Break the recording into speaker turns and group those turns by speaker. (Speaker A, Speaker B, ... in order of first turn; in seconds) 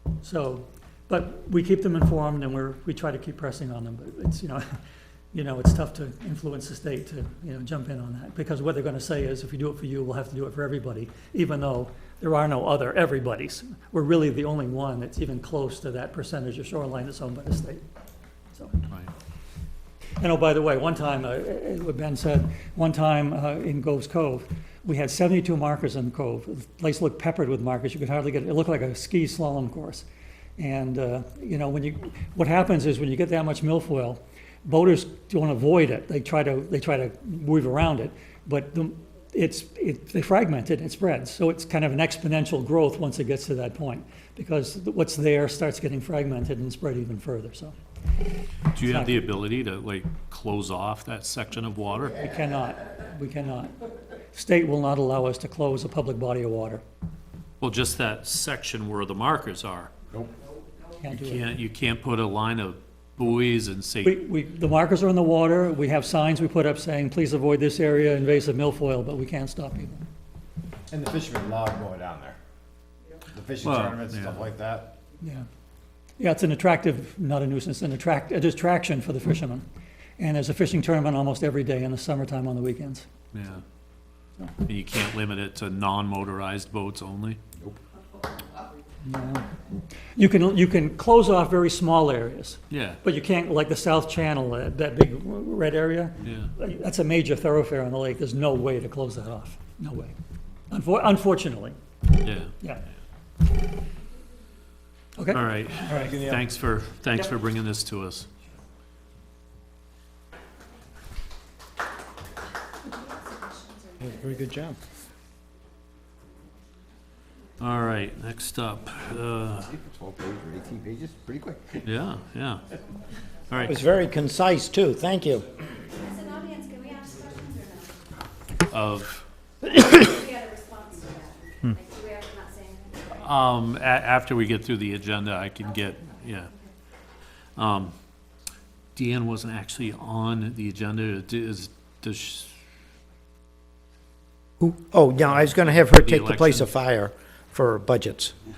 Speaker A: 0.2-4.8, 5.3-17.8, 18.5-18.8, 20.2-30.0, 30.6-47.7, 48.8-49.2, 52.2-53.8, 54.3-56.8, 61.0-61.5, 64.0-70.0, 75.2-75.5, 76.2-79.6, 80.2-83.0, 89.0-89.5, 90.1-100.1, 100.7-101.8, 105.2-106.3
Speaker B: 48.7-52.2, 57.6-59.9, 61.1-64.2, 73.6-74.5, 83.3-83.6, 84.6-87.4, 92.7-93.0, 96.2-96.5, 102.2-102.5, 105.3-108.3, 117.6-119.8, 121.8-122.7, 123.5-123.8, 128.7-129.2, 133.1-136.5, 137.6-137.9, 138.9-142.6, 145.3-146.7
Speaker C: 70.9-72.4, 73.3-75.0, 119.7-121.8
Speaker D: 112.9-114.4, 126.0-128.0, 129.7-133.1
Speaker E: 114.0-114.8, 123.6-125.4, 144.6-148.3